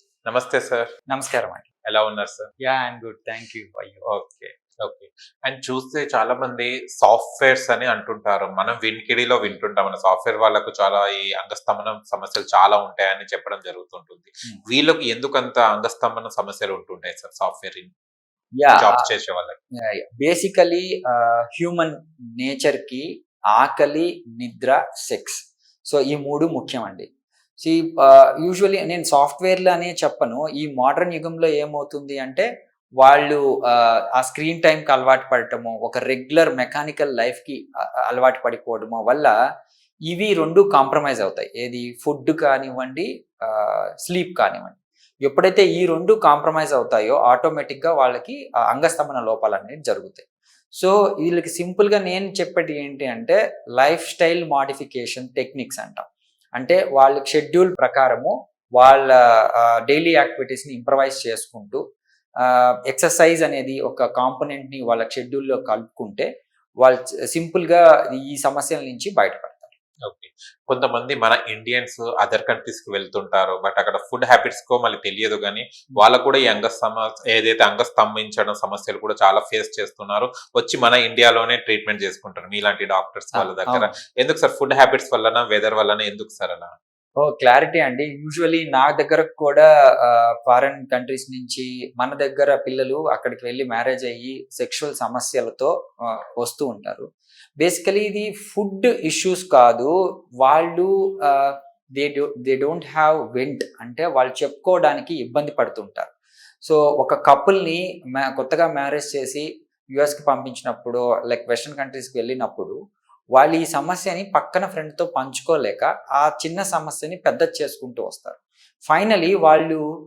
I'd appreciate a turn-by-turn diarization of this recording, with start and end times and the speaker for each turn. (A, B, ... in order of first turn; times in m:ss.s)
0:00.3-0:00.9 A
0:01.1-0:01.6 B
0:01.8-0:02.5 A
0:02.6-0:04.1 B
0:04.1-0:17.9 A
0:18.6-0:19.0 B
0:18.8-0:19.6 A
0:20.2-0:27.0 B
0:27.6-0:32.4 B
0:33.0-0:39.3 B
0:40.1-0:50.2 B
0:50.8-0:56.0 B
0:56.6-1:01.8 B
1:02.4-1:06.3 B
1:06.8-1:09.7 B
1:10.0-1:26.7 A
1:23.3-1:23.9 B
1:27.2-1:35.7 B
1:36.4-1:37.0 B
1:37.6-1:39.9 B
1:40.4-1:46.1 B
1:46.6-1:52.7 B
1:53.4-1:59.8 B